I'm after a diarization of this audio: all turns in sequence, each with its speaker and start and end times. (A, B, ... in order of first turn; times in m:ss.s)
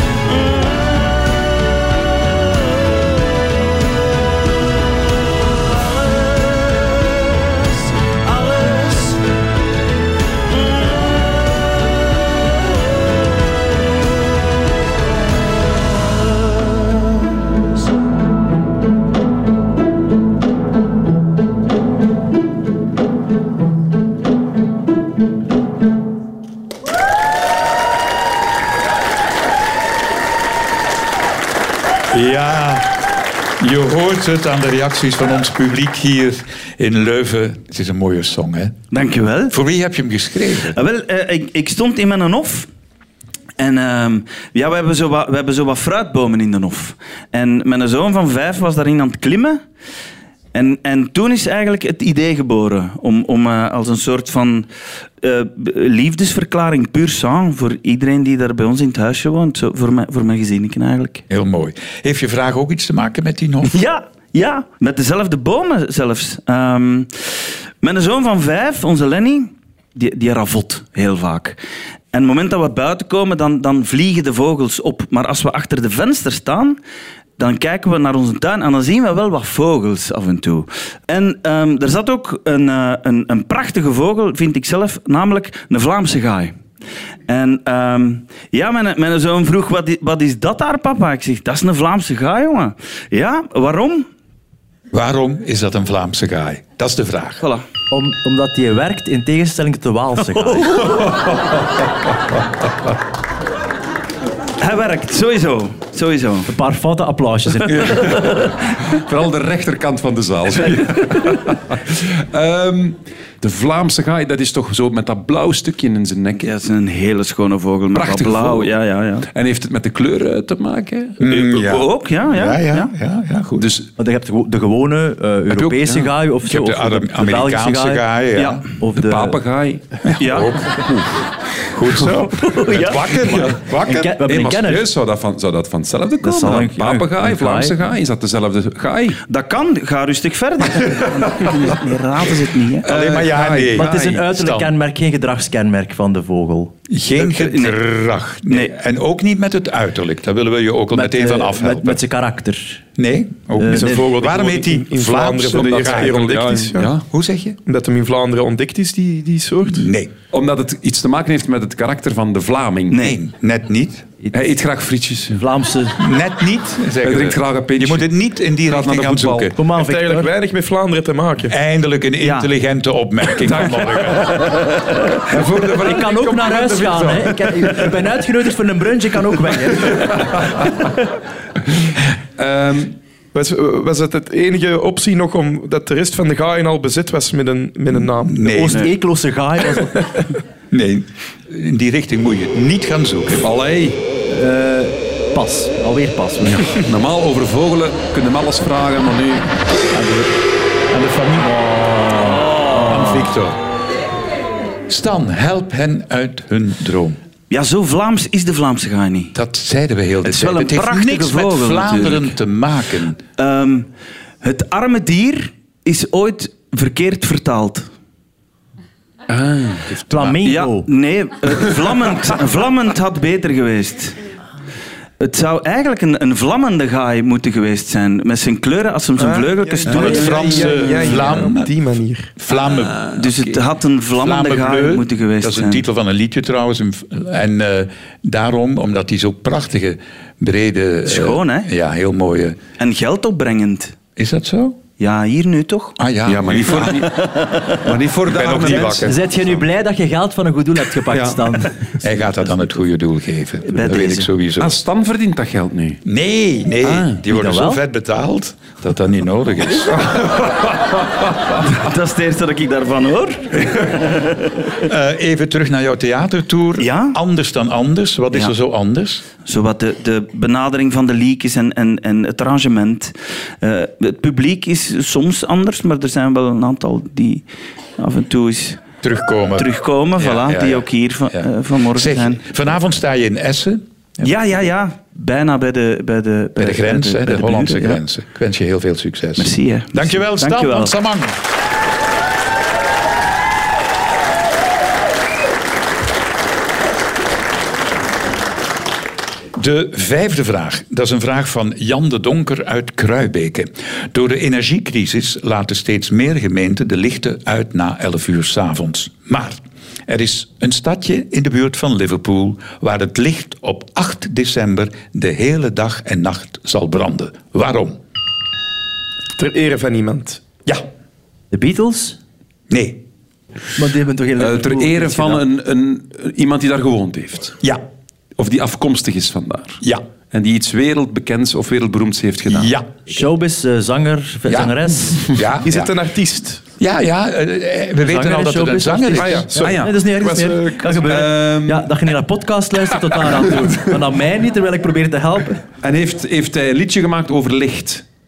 0:00.2-0:04.0 A
0:05.2-0:09.3 A
0:10.5-0:13.7 A
0:15.6-0:17.3 A
0:32.1-0:33.0 B
0:33.6-0:38.8 B
0:38.9-0:39.6 A
0:39.5-0:40.8 B
0:40.7-0:42.7 A
0:43.6-0:49.6 A
0:50.5-0:54.7 A
0:55.2-1:01.2 A
1:01.3-1:03.8 B
1:03.6-1:07.1 A
1:07.8-1:11.6 A
1:12.1-1:16.8 A
1:17.4-1:26.6 A
1:27.3-1:34.1 A
1:34.9-1:37.4 B
1:37.4-1:37.6 A
1:37.9-1:40.8 C
1:40.3-1:41.1 A
1:40.8-1:41.6 D
1:44.6-1:46.5 A
1:46.5-1:48.2 C
1:47.7-1:56.5 D
1:56.4-1:59.3 A
1:57.9-1:58.7 D
1:59.3-2:01.2 D
2:01.2-2:03.7 B
2:01.3-2:02.9 A
2:03.6-2:03.9 D
2:04.0-2:08.0 C
2:05.6-2:06.0 D
2:06.4-2:08.6 B
2:08.4-2:08.6 A
2:08.8-2:09.4 C
2:09.0-2:10.1 D
2:10.1-2:10.9 B
2:10.2-2:10.6 A
2:10.8-2:11.1 D
2:11.7-2:14.2 B
2:12.6-2:13.1 A
2:13.2-2:13.6 D
2:13.9-2:14.9 C
2:14.2-2:19.2 D
2:16.2-2:17.8 C
2:19.3-2:22.9 A
2:22.8-2:24.2 D
2:22.8-2:24.7 B
2:23.8-2:26.7 C
2:26.9-2:32.0 B
2:27.2-2:27.8 A
2:28.5-2:28.7 A
2:30.9-2:32.8 C
2:33.0-2:37.6 B
2:33.6-2:34.0 C
2:33.7-2:36.9 E
2:35.5-2:37.0 D
2:37.7-2:39.9 E
2:39.7-2:40.1 B
2:40.3-2:43.0 D
2:42.9-2:43.2 A
2:43.0-2:44.1 B
2:44.3-2:45.4 D
2:45.4-2:46.0 C
2:46.0-2:49.6 B
2:47.0-2:48.1 D
2:48.6-2:49.6 D
2:49.6-2:50.3 C
2:49.7-2:51.5 E
2:51.5-2:54.6 B
2:52.2-2:52.5 A
2:53.4-2:54.4 D
2:54.4-2:54.9 A
2:55.3-2:58.0 D
2:55.8-3:00.7 C
2:59.8-3:00.8 D
3:01.9-3:03.0 D
3:03.3-3:08.7 E
3:08.0-3:08.9 B
3:08.4-3:10.1 C
3:10.7-3:13.5 B
3:13.4-3:14.0 D
3:14.3-3:16.8 C
3:16.5-3:19.5 D
3:19.9-3:20.3 C
3:20.9-3:23.6 B
3:24.9-3:27.2 B
3:27.5-3:29.4 A
3:29.3-3:33.2 B
3:30.2-3:32.3 A
3:33.4-3:33.9 A
3:34.4-3:37.9 A
3:39.3-3:40.0 D
3:40.1-3:40.4 B
3:40.1-3:40.9 C
3:40.4-3:44.2 A
3:45.2-3:51.0 A
3:49.2-3:52.3 E
3:49.9-3:51.7 B
3:52.4-3:53.2 B
3:52.7-3:53.2 D
3:53.1-3:55.8 A
3:54.2-4:02.6 B
4:01.1-4:01.7 A
4:02.8-4:04.0 A
4:04.2-4:04.8 B
4:05.0-4:06.0 A
4:06.0-4:07.1 B
4:06.3-4:09.1 D
4:07.0-4:07.9 A
4:08.3-4:09.6 B
4:09.0-4:11.9 C
4:11.1-4:11.6 D
4:12.0-4:14.8 B
4:13.7-4:14.3 A
4:14.6-4:16.0 D
4:16.0-4:20.1 B
4:16.8-4:17.2 D
4:17.3-4:17.8 C
4:20.0-4:20.8 D
4:21.6-4:24.7 A
4:24.8-4:29.2 B
4:26.8-4:27.2 A
4:29.4-4:38.8 A
4:39.0-4:44.3 B
4:39.6-4:42.4 A
4:44.2-4:48.0 A
4:46.6-4:51.4 B
4:49.4-4:50.9 A
4:59.6-5:18.0 B
5:19.4-5:20.4 E
5:21.5-5:22.2 C
5:22.7-5:23.0 B
5:23.8-5:25.4 C
5:24.4-5:27.6 D
5:28.4-5:29.8 D
5:30.3-5:32.7 D
5:32.5-5:32.9 B
5:33.1-5:35.2 C
5:34.5-5:35.9 B
5:35.6-5:36.6 E
5:36.8-5:39.5 B
5:38.1-5:45.6 C
5:39.2-5:41.0 E
5:39.6-5:42.0 D
5:43.1-5:43.9 D
5:45.8-5:48.0 D